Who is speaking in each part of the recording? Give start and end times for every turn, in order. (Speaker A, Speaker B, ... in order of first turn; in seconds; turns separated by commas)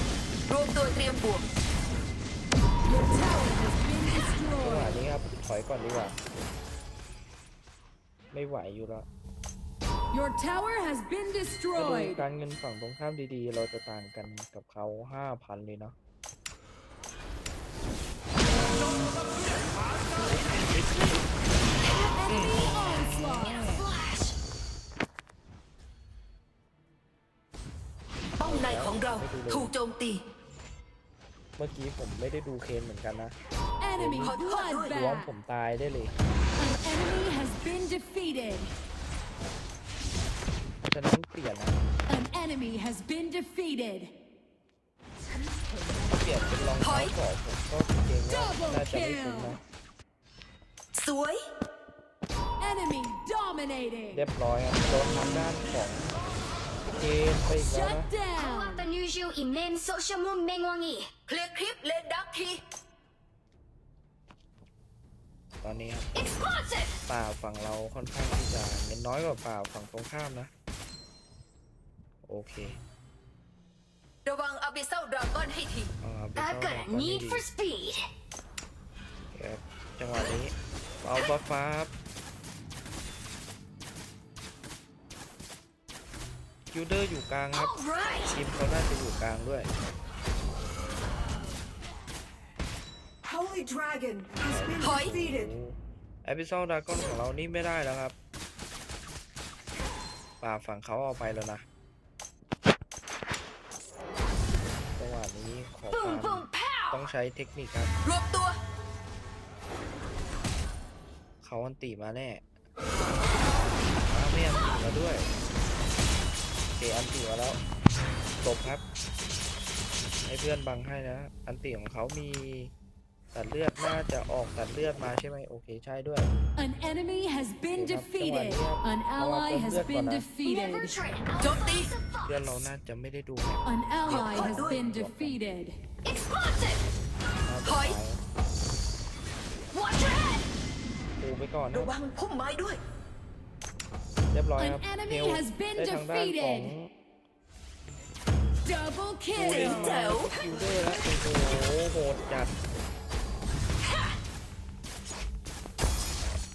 Speaker A: 0.5-1.4, Speaker B: 2.9-4.9, Speaker C: 4.6-6.2, Speaker C: 8.3-9.1, Speaker B: 10.1-12.2, Speaker C: 11.8-15.9, Speaker B: 22.0-23.9, Speaker C: 22.3-23.8, Speaker A: 28.4-30.2, Speaker C: 28.4-29.7, Speaker C: 31.6-33.4, Speaker B: 33.8-35.3, Speaker C: 34.0-34.4, Speaker A: 34.2-34.9, Speaker C: 34.9-36.1, Speaker B: 36.6-38.7, Speaker C: 40.9-41.8, Speaker B: 42.1-44.1, Speaker C: 46.0-49.6, Speaker A: 46.8-47.1, Speaker B: 48.3-49.6, Speaker A: 50.9-51.4, Speaker B: 52.6-54.3, Speaker C: 54.1-56.1, Speaker C: 57.0-58.1, Speaker B: 57.5-58.9, Speaker D: 58.4-61.1, Speaker A: 61.3-62.6, Speaker C: 65.6-66.1, Speaker D: 66.5-66.9, Speaker C: 67.1-70.5, Speaker C: 72.2-72.8, Speaker A: 74.2-75.9, Speaker C: 76.0-77.5, Speaker D: 76.4-78.1, Speaker C: 79.3-81.9, Speaker C: 86.7-87.8, Speaker D: 87.6-88.4, Speaker C: 88.3-89.7, Speaker E: 93.2-95.5, Speaker C: 94.4-98.2, Speaker A: 94.8-95.1, Speaker C: 100.4-101.6, Speaker C: 105.0-107.9, Speaker D: 105.9-107.0, Speaker A: 108.0-108.6, Speaker C: 111.4-112.4, Speaker C: 114.1-115.3, Speaker C: 116.8-117.6, Speaker C: 118.4-118.8, Speaker C: 120.3-122.7, Speaker C: 123.3-126.3, Speaker B: 126.6-130.9, Speaker C: 127.7-130.3, Speaker D: 130.4-132.4, Speaker A: 131.4-131.9, Speaker C: 132.2-135.4, Speaker B: 133.7-135.8, Speaker A: 134.1-134.8, Speaker D: 136.4-136.8, Speaker C: 137.4-138.2, Speaker A: 137.7-138.0, Speaker D: 139.7-140.5, Speaker C: 141.2-141.9, Speaker A: 141.7-142.8, Speaker C: 144.3-146.9, Speaker B: 144.6-146.7, Speaker B: 148.7-150.0, Speaker C: 149.3-152.5, Speaker A: 149.5-150.3